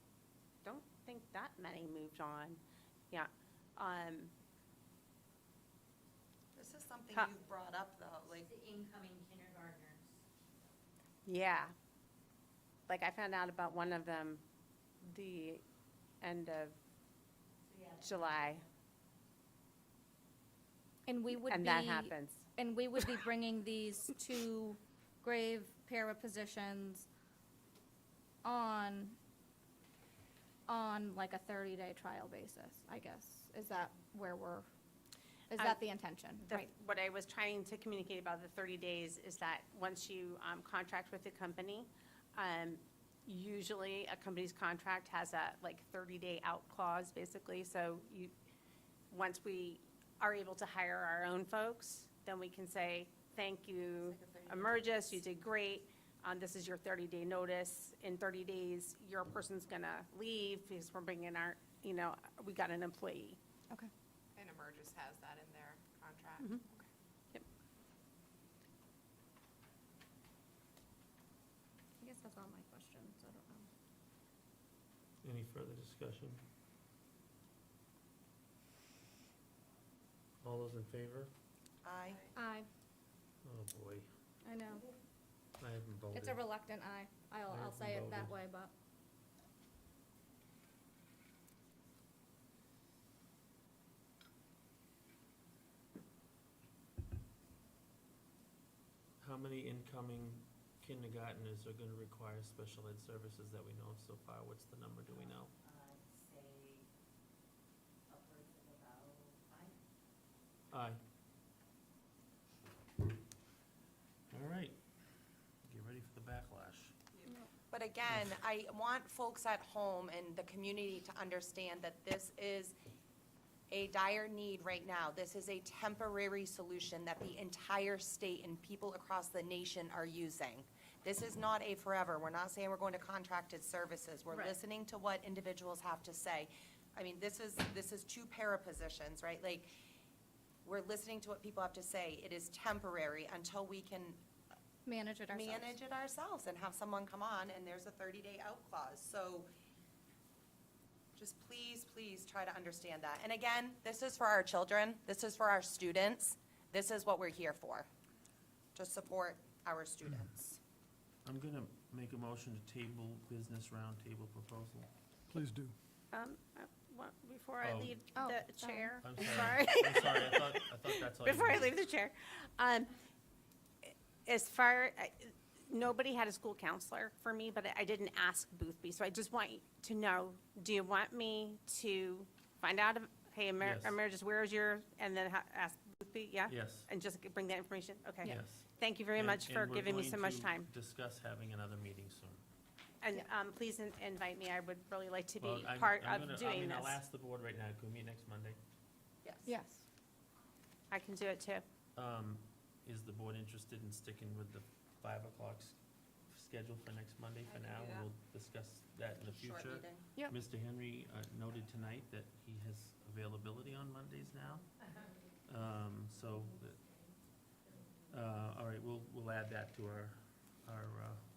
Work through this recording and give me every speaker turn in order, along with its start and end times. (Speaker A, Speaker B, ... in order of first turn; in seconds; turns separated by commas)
Speaker A: 0.6-2.6, Speaker A: 3.1-4.3, Speaker B: 6.5-8.5, Speaker C: 8.5-10.0, Speaker A: 11.2-11.7, Speaker A: 12.9-14.4, Speaker A: 15.0-15.6, Speaker A: 16.2-16.8, Speaker A: 17.9-18.6, Speaker D: 21.1-27.1, Speaker A: 21.3-22.5, Speaker A: 23.0-23.2, Speaker D: 28.4-29.1, Speaker D: 30.7-34.7, Speaker D: 35.5-36.7, Speaker A: 36.4-48.3, Speaker A: 49.1-63.4, Speaker B: 54.1-55.0, Speaker E: 64.3-66.8, Speaker D: 72.0-73.7, Speaker F: 75.2-76.4, Speaker F: 80.4-81.3, Speaker B: 81.8-82.3, Speaker D: 82.3-82.7, Speaker F: 83.4-84.1, Speaker D: 84.4-84.9, Speaker F: 85.6-86.4, Speaker D: 86.1-88.7, Speaker F: 87.5-88.3, Speaker F: 99.2-105.5, Speaker C: 105.6-106.8, Speaker C: 108.1-109.8, Speaker F: 110.7-111.0, Speaker F: 114.3-114.8, Speaker F: 115.6-116.9, Speaker B: 117.7-122.8, Speaker B: 123.7-139.7, Speaker B: 140.6-144.2, Speaker D: 144.8-145.7, Speaker B: 145.3-149.5, Speaker B: 151.2-157.9, Speaker B: 158.8-160.6, Speaker F: 161.2-164.9, Speaker A: 166.1-172.9, Speaker F: 167.6-168.0, Speaker D: 168.2-169.0, Speaker F: 169.0-171.8, Speaker A: 173.8-190.7, Speaker F: 183.6-184.0, Speaker F: 186.5-186.9, Speaker F: 188.2-192.4, Speaker A: 193.0-197.0, Speaker F: 195.4-198.6, Speaker D: 199.5-199.8, Speaker A: 200.9-201.6, Speaker F: 201.9-205.8, Speaker F: 206.3-214.7, Speaker B: 207.6-208.1, Speaker B: 209.3-210.1, Speaker F: 215.5-216.9, Speaker F: 218.1-221.2